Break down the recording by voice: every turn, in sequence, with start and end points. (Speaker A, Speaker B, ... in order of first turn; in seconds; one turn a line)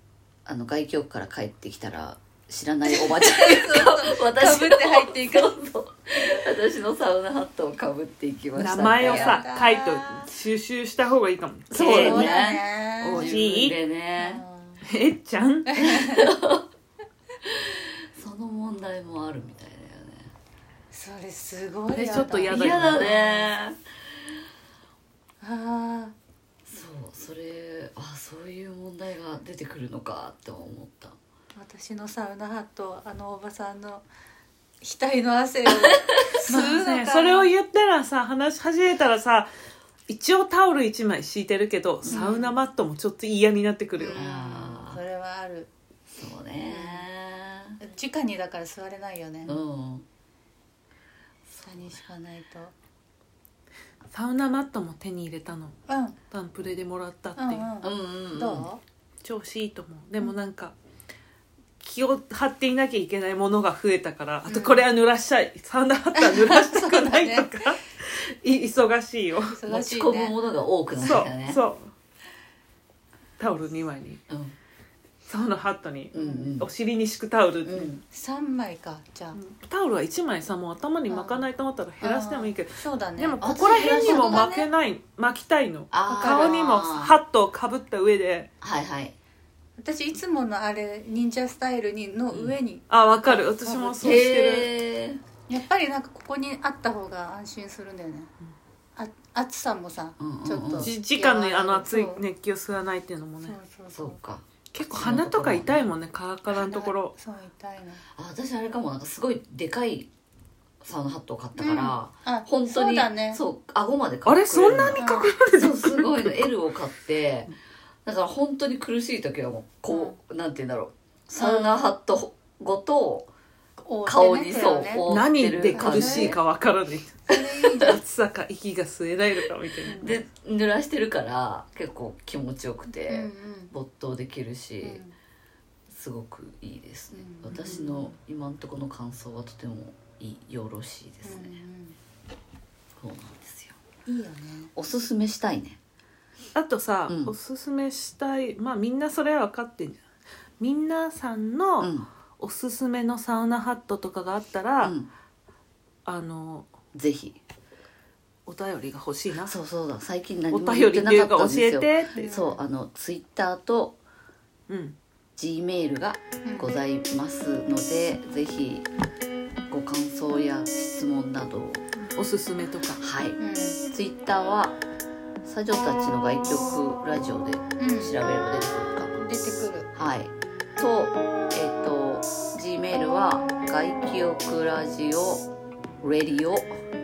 Speaker A: 0.5-9.4
Speaker B: 2.9-5.5
Speaker C: 8.6-12.3
Speaker B: 9.0-10.3
Speaker A: 11.7-14.4
Speaker B: 11.7-13.3
Speaker C: 13.0-13.8
Speaker B: 14.2-14.8
Speaker C: 14.8-15.7
Speaker B: 15.7-16.3
Speaker A: 15.8-16.6
Speaker A: 17.4-20.3
Speaker B: 20.9-23.6
Speaker C: 21.9-23.1
Speaker A: 22.5-23.8
Speaker B: 25.4-26.1
Speaker A: 26.7-31.1
Speaker B: 31.5-34.0
Speaker B: 34.8-37.5
Speaker C: 36.5-39.5
Speaker C: 40.1-44.2
Speaker A: 42.0-42.3
Speaker B: 42.1-42.5
Speaker B: 44.0-45.7
Speaker A: 44.1-45.0
Speaker A: 46.2-47.8
Speaker B: 46.7-47.1
Speaker B: 47.8-49.6
Speaker A: 49.5-50.0
Speaker B: 51.6-52.7
Speaker C: 54.1-55.8
Speaker B: 55.9-56.2
Speaker C: 56.3-57.7
Speaker B: 57.4-58.8
Speaker A: 57.8-58.7
Speaker C: 59.2-60.7
Speaker C: 61.8-69.6
Speaker B: 64.4-64.9
Speaker B: 66.2-67.7
Speaker B: 69.5-70.4
Speaker A: 69.7-71.6
Speaker C: 70.9-71.9
Speaker C: 73.4-74.2
Speaker A: 74.3-74.5
Speaker C: 75.2-78.0
Speaker A: 76.1-76.7
Speaker B: 76.1-76.6
Speaker A: 77.6-78.0
Speaker B: 78.1-79.4
Speaker C: 79.3-88.5
Speaker B: 81.1-81.5
Speaker B: 82.0-84.7
Speaker A: 83.4-84.5
Speaker A: 85.9-87.1
Speaker B: 86.0-86.7
Speaker A: 88.6-89.1
Speaker B: 89.8-94.3
Speaker C: 92.9-94.7
Speaker A: 94.0-95.2
Speaker B: 95.5-98.3
Speaker B: 99.0-102.2
Speaker A: 100.2-100.9
Speaker C: 100.8-103.6
Speaker B: 103.4-104.2
Speaker A: 103.9-105.8
Speaker C: 104.7-107.1
Speaker B: 106.5-108.0
Speaker A: 108.2-110.1
Speaker A: 110.8-117.5
Speaker B: 111.5-113.4
Speaker C: 114.2-116.4
Speaker B: 115.0-115.4
Speaker A: 118.0-123.3
Speaker B: 119.9-120.2
Speaker B: 121.4-121.8
Speaker B: 123.8-125.0
Speaker A: 124.0-126.4
Speaker C: 125.1-130.1
Speaker B: 125.7-126.3
Speaker B: 127.3-128.0
Speaker B: 129.8-130.2
Speaker A: 129.9-135.0
Speaker B: 133.1-133.7
Speaker B: 134.8-135.1
Speaker A: 135.9-141.6
Speaker B: 137.1-138.1
Speaker B: 141.2-142.0
Speaker A: 143.0-143.8
Speaker B: 144.1-144.7
Speaker A: 144.7-145.8
Speaker C: 146.5-150.0
Speaker A: 147.1-147.3
Speaker C: 150.6-154.9
Speaker A: 151.8-152.1
Speaker A: 154.8-155.1
Speaker C: 156.0-156.7
Speaker A: 156.9-157.4
Speaker C: 158.5-159.5
Speaker A: 159.4-164.0
Speaker C: 160.5-162.3
Speaker B: 162.1-162.6
Speaker C: 164.7-164.9
Speaker A: 165.4-168.9
Speaker B: 166.4-166.7
Speaker A: 169.7-171.9
Speaker C: 172.2-173.0
Speaker A: 173.0-173.4
Speaker B: 173.4-173.8
Speaker A: 173.9-174.8
Speaker A: 175.4-179.2
Speaker B: 177.8-178.1
Speaker B: 179.2-179.9
Speaker A: 179.9-185.5
Speaker A: 186.0-186.7